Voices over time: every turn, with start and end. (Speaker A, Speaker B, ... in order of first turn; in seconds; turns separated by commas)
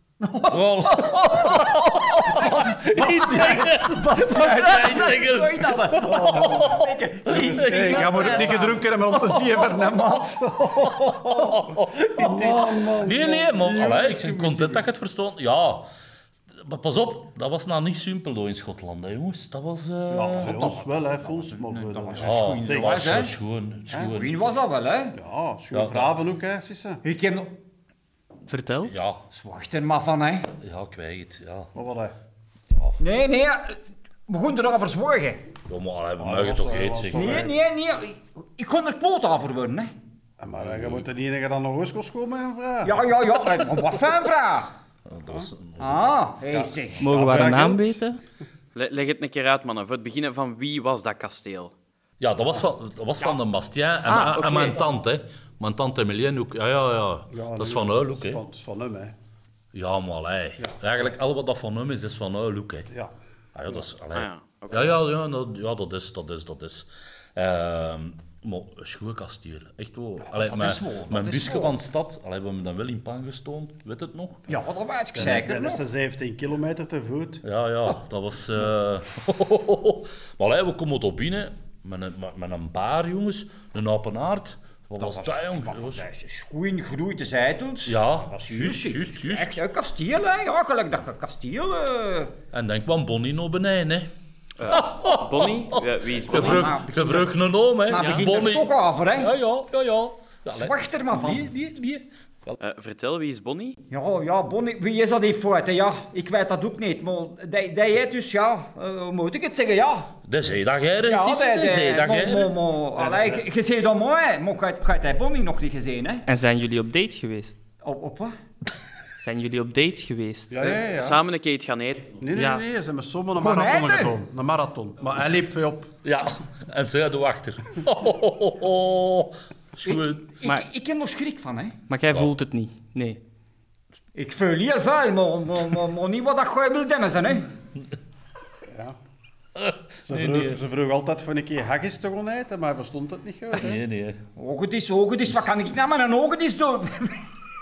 Speaker A: 0.2-8.8, Speaker B: 0.5-8.7, Speaker C: 2.7-5.2, Speaker C: 5.9-6.8, Speaker C: 7.3-14.9, Speaker B: 10.7-15.9, Speaker B: 16.6-20.7, Speaker C: 20.1-23.2, Speaker A: 20.3-23.3, Speaker B: 22.2-24.4, Speaker A: 23.9-25.2, Speaker C: 25.1-27.0, Speaker B: 25.7-26.1, Speaker A: 27.0-27.6, Speaker D: 28.5-28.9, Speaker B: 28.8-29.2, Speaker A: 29.3-30.5, Speaker B: 30.6-31.7, Speaker C: 31.7-32.1, Speaker B: 32.7-33.0, Speaker A: 33.0-35.4, Speaker B: 35.7-37.5, Speaker C: 36.2-37.5, Speaker A: 37.1-39.9, Speaker C: 40.4-43.0, Speaker B: 40.6-41.0, Speaker A: 42.8-44.7, Speaker B: 45.0-46.1, Speaker A: 45.8-47.1, Speaker D: 47.0-48.2, Speaker C: 47.0-48.0, Speaker E: 48.7-51.7, Speaker B: 52.2-58.4, Speaker E: 54.1-54.7, Speaker A: 54.1-54.7, Speaker C: 57.3-59.1, Speaker B: 59.7-62.9, Speaker B: 63.5-74.5, Speaker E: 64.1-65.0, Speaker A: 70.2-71.8, Speaker A: 74.5-75.8, Speaker C: 75.1-77.4, Speaker B: 77.4-86.0, Speaker A: 85.0-92.3, Speaker B: 87.8-89.6, Speaker B: 92.5-94.1, Speaker E: 94.6-96.7, Speaker B: 94.6-102.6, Speaker A: 96.2-97.3, Speaker A: 97.8-99.3, Speaker A: 100.5-101.5, Speaker E: 102.6-103.8, Speaker A: 103.9-110.1, Speaker B: 110.2-112.5, Speaker A: 111.0-116.2, Speaker C: 112.9-113.4, Speaker D: 116.3-117.6, Speaker A: 117.8-118.3, Speaker D: 119.2-120.7, Speaker C: 120.5-121.2, Speaker E: 120.7-122.2, Speaker C: 122.2-125.9, Speaker D: 122.3-122.6, Speaker A: 123.3-124.1, Speaker B: 126.0-130.3, Speaker A: 129.8-131.8, Speaker D: 131.9-133.2, Speaker A: 134.1-137.5, Speaker C: 138.7-139.0, Speaker B: 139.6-140.6, Speaker C: 140.0-143.8, Speaker B: 143.5-144.2, Speaker A: 144.3-147.4